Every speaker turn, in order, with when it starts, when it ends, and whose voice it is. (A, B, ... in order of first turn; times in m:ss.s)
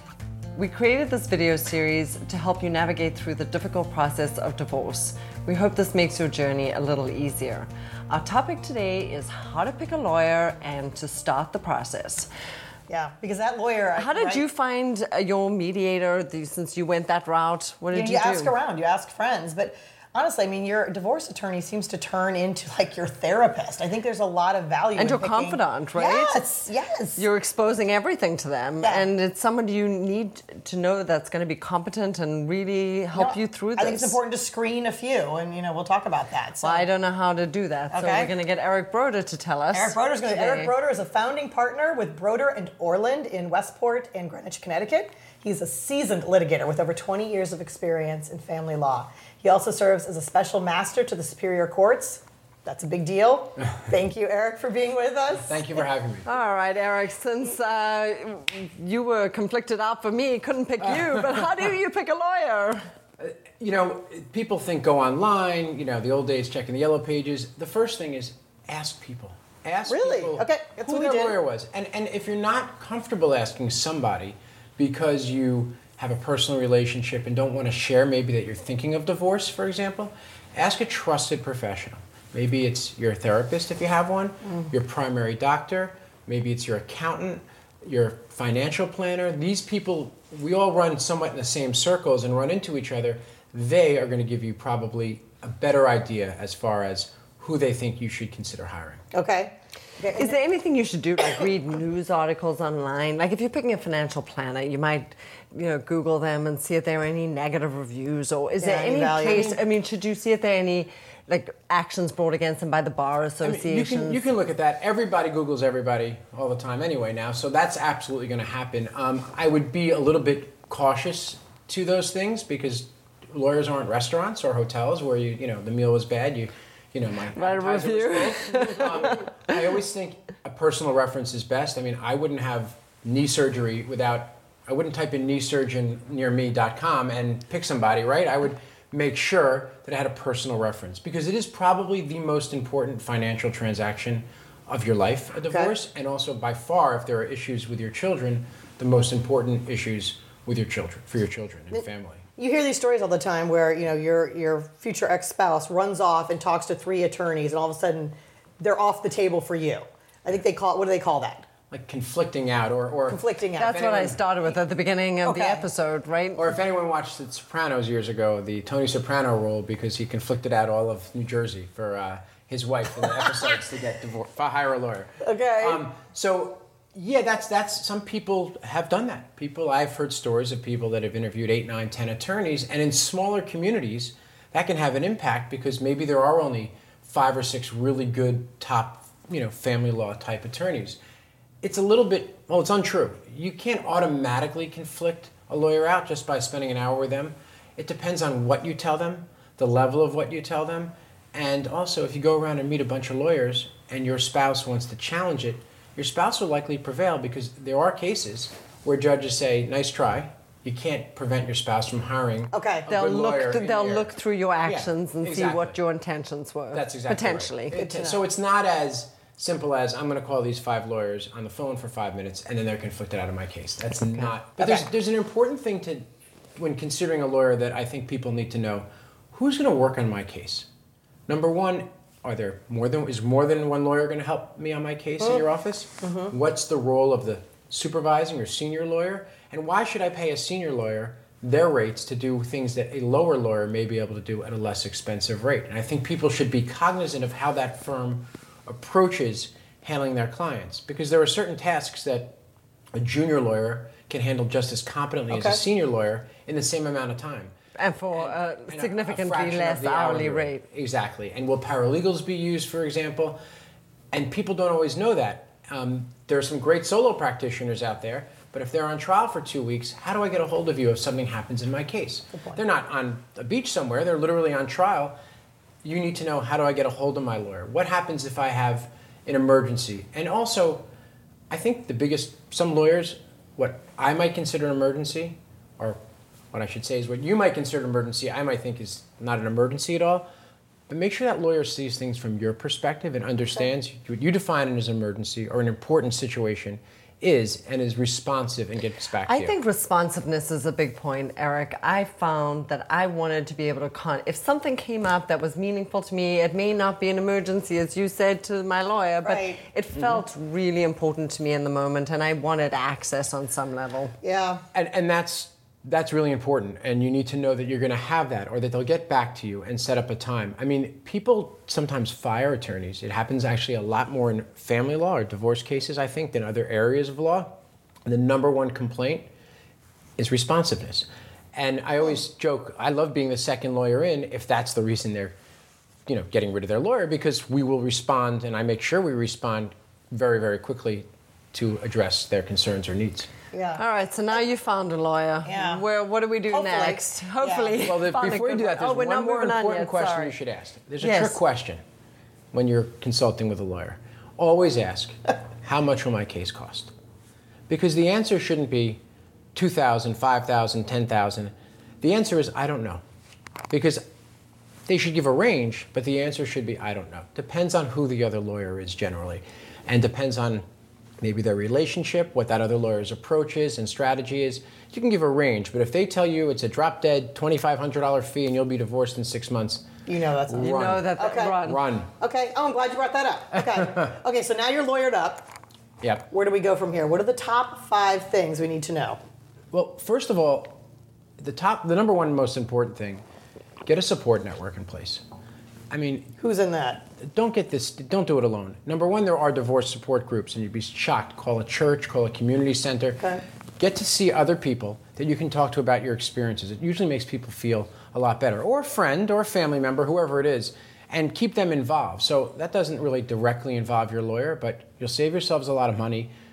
0:00.5-0:12.3 A
0:12.9-0:14.4 B
0:14.0-0:18.5 A
0:17.9-0:27.2 B
0:25.0-0:26.4 A
0:27.2-0:34.2 A
0:28.8-0:29.1 B
0:33.1-0:36.8 B
0:36.6-0:40.7 A
0:37.9-0:38.3 B
0:39.7-0:55.8 B
0:55.4-0:56.3 C
0:56.2-1:02.8 A
1:00.8-1:01.4 C
1:03.2-1:39.0 C
1:09.9-1:11.4 B
1:39.1-1:40.4 B
1:40.1-1:54.2 A
1:48.6-1:49.6 B
1:49.3-1:49.6 C
1:53.4-2:32.2 C
2:07.3-2:09.3 A
2:32.4-2:41.5 B
2:41.7-2:44.2 C
2:43.1-2:43.7 B
2:43.6-2:46.5 A
2:45.2-2:45.6 B
2:46.4-3:11.0 C
2:55.2-2:55.8 B
3:11.6-3:34.1 C
3:32.5-3:32.9 B
3:32.9-3:37.8 A
3:34.6-3:35.8 C
3:36.7-3:46.0 C
3:37.7-3:38.2 B
3:44.6-3:44.8 B
3:46.6-3:50.7 C
3:51.3-4:12.4 C
3:56.0-3:56.3 B
4:12.9-4:17.5 C
4:15.3-4:15.6 B
4:17.8-4:20.6 A
4:18.1-4:23.4 C
4:24.1-4:35.2 C
4:32.3-4:32.6 B
4:35.8-4:40.8 C
4:41.5-4:46.0 C
4:46.5-4:50.3 C
4:50.9-4:59.5 C
4:59.2-5:14.1 A
5:09.2-5:09.6 B
5:14.2-5:14.6 B
5:14.7-5:27.5 C
5:28.0-5:29.3 C
5:30.2-5:35.3 C
5:36.1-5:43.3 C
5:43.5-5:43.8 B
5:43.8-5:50.3 A
5:45.4-5:45.8 B
5:46.5-5:47.8 B
5:47.8-5:51.8 C
5:51.0-5:51.4 A
5:52.5-5:56.9 C
5:57.7-5:59.0 C
5:59.5-6:03.0 C
6:03.7-6:04.0 C
6:04.9-6:10.6 C
6:11.2-6:19.9 C
6:20.0-6:21.6 B
6:20.5-6:22.1 C
6:20.6-6:21.8 A
6:22.2-6:25.5 B
6:26.0-6:26.3 C
6:26.3-6:29.2 B
6:29.7-6:30.8 C
6:31.4-6:33.2 C
6:33.8-6:35.2 C
6:35.9-6:36.3 C
6:36.4-6:37.1 B
6:37.2-6:43.2 C
6:43.2-6:43.4 B
6:43.8-6:56.3 C